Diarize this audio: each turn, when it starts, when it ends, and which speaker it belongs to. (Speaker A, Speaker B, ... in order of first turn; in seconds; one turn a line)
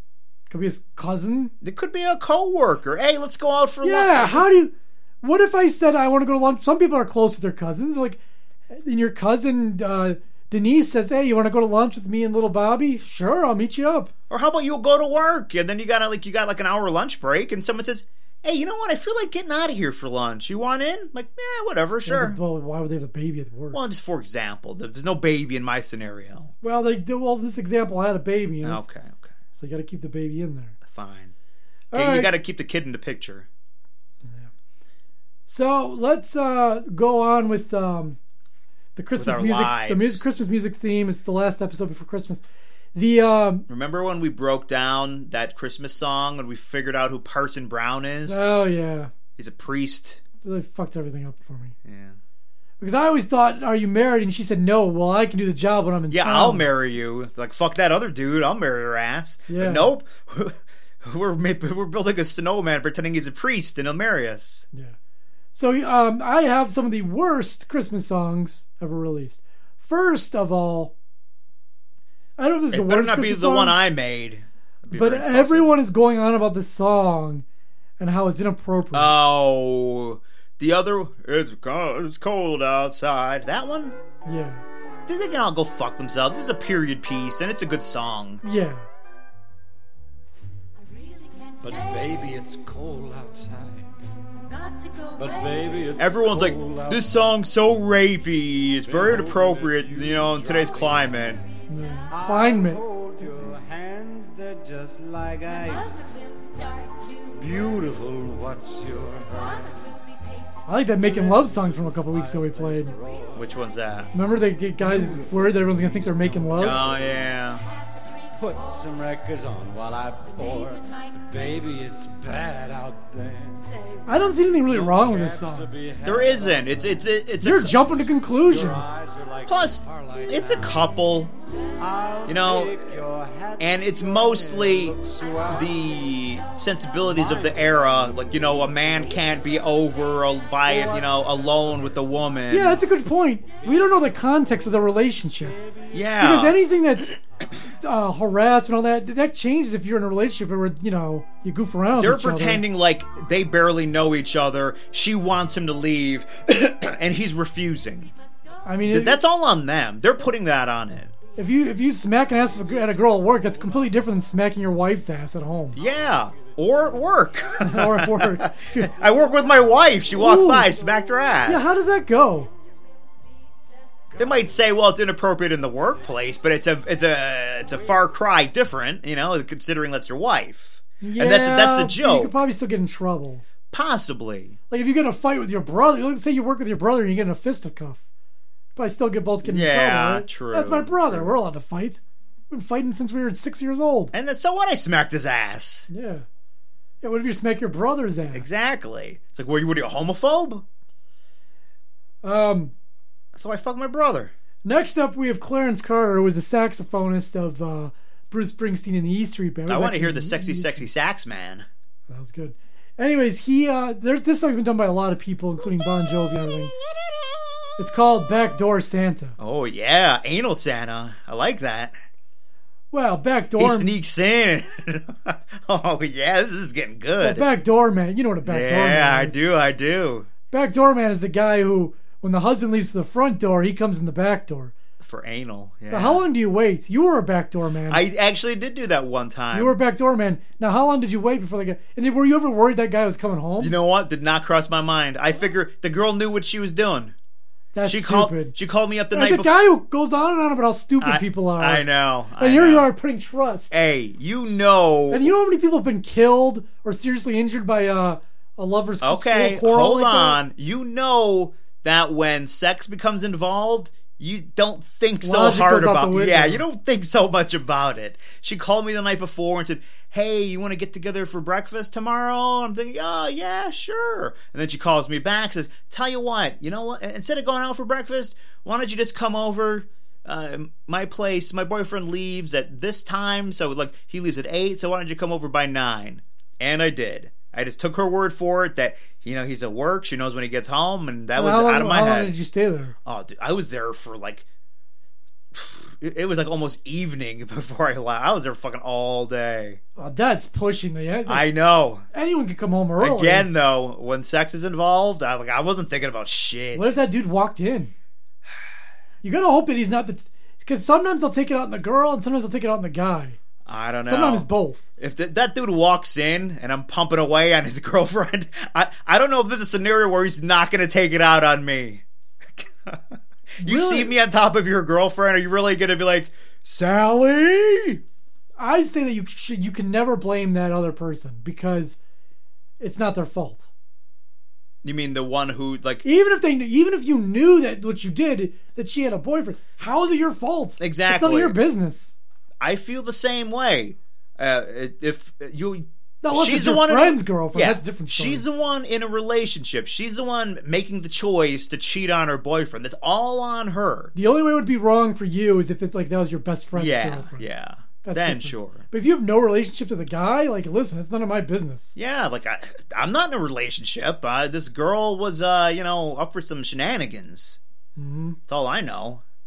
Speaker A: 0.5-1.5
Speaker B: 1.6-4.6
Speaker A: 3.8-14.1
Speaker B: 14.3-22.4
Speaker A: 22.1-23.8
Speaker B: 23.7-26.5
Speaker A: 26.6-28.8
Speaker B: 28.6-29.3
Speaker A: 29.6-30.8
Speaker B: 30.8-31.3
Speaker A: 31.9-32.3
Speaker B: 31.9-33.5
Speaker A: 34.2-34.5
Speaker A: 35.5-38.2
Speaker A: 39.0-42.4
Speaker B: 39.1-40.2
Speaker A: 42.9-43.6
Speaker B: 43.7-48.5
Speaker A: 48.2-49.1
Speaker B: 49.4-50.2
Speaker A: 50.4-51.7
Speaker B: 51.8-52.2
Speaker A: 52.8-56.7
Speaker B: 56.1-64.7
Speaker A: 59.5-59.9
Speaker A: 65.5-70.9
Speaker A: 72.4-73.8
Speaker B: 72.7-75.7
Speaker A: 74.9-77.4
Speaker A: 78.0-79.1
Speaker B: 78.9-84.0
Speaker A: 84.2-84.6
Speaker B: 85.1-88.4
Speaker A: 88.4-88.8
Speaker C: 91.6-93.9
Speaker C: 95.1-97.3
Speaker B: 96.0-101.4
Speaker C: 98.8-101.3
Speaker A: 101.7-102.8
Speaker C: 102.1-106.1
Speaker C: 107.3-109.8
Speaker A: 110.7-112.9
Speaker C: 110.9-113.6
Speaker B: 113.3-114.1
Speaker A: 114.1-116.8
Speaker C: 114.8-117.2
Speaker B: 116.5-117.6
Speaker C: 118.3-123.7
Speaker A: 124.1-125.7
Speaker C: 124.7-127.1
Speaker B: 126.0-127.8
Speaker A: 127.4-128.9
Speaker C: 128.4-130.8
Speaker B: 129.4-131.3
Speaker C: 131.8-135.8
Speaker B: 132.2-133.0
Speaker B: 133.6-135.0
Speaker B: 135.5-142.8
Speaker C: 137.0-139.0
Speaker C: 140.6-142.4
Speaker A: 142.5-145.6
Speaker C: 143.7-144.1
Speaker B: 145.9-146.6
Speaker A: 146.2-147.2
Speaker A: 147.8-152.6
Speaker B: 151.9-158.1
Speaker A: 158.7-159.2
Speaker B: 158.8-161.1
Speaker A: 161.3-165.8
Speaker B: 165.7-171.8
Speaker A: 167.6-168.9
Speaker A: 170.1-170.7
Speaker A: 171.4-172.5
Speaker B: 174.2-182.4
Speaker A: 181.0-183.4
Speaker B: 183.7-184.6
Speaker A: 184.7-188.0
Speaker A: 188.8-194.1
Speaker B: 189.4-191.4
Speaker B: 194.1-195.9
Speaker A: 195.9-196.2
Speaker A: 197.0-198.5
Speaker B: 198.3-200.6
Speaker A: 202.2-202.7
Speaker B: 203.3-204.3
Speaker A: 204.6-210.9
Speaker B: 209.7-211.7
Speaker A: 212.1-216.7
Speaker A: 217.8-219.3
Speaker B: 219.4-222.0
Speaker A: 222.9-223.9
Speaker B: 223.6-227.5
Speaker A: 227.2-229.4
Speaker B: 228.4-230.3
Speaker A: 230.5-234.7
Speaker B: 235.0-236.2
Speaker A: 235.9-238.0
Speaker B: 237.9-239.8
Speaker A: 239.5-243.7
Speaker B: 243.6-247.1
Speaker A: 247.7-248.5
Speaker B: 247.8-249.6
Speaker A: 249.1-251.9
Speaker B: 251.0-252.9
Speaker A: 252.4-253.7
Speaker B: 253.7-255.3
Speaker A: 255.1-260.4
Speaker B: 259.0-292.3
Speaker A: 265.2-266.6
Speaker A: 291.4-292.9
Speaker B: 293.0-294.4
Speaker B: 295.5-299.8
Speaker A: 300.0-301.5
Speaker B: 301.3-302.1
Speaker A: 302.1-303.5
Speaker B: 303.0-307.0
Speaker A: 306.7-307.9
Speaker A: 309.2-313.4
Speaker B: 313.6-314.5
Speaker A: 314.1-314.9
Speaker B: 315.0-322.0
Speaker B: 322.6-328.0
Speaker A: 323.6-324.1
Speaker A: 328.6-332.0
Speaker A: 332.8-333.6
Speaker B: 334.8-336.0
Speaker A: 336.0-342.1
Speaker B: 340.8-341.6
Speaker B: 342.6-354.1
Speaker A: 346.2-348.4
Speaker A: 354.1-357.4
Speaker B: 356.7-358.8
Speaker A: 358.0-361.9
Speaker B: 361.9-367.6
Speaker A: 368.0-368.4
Speaker B: 368.4-369.2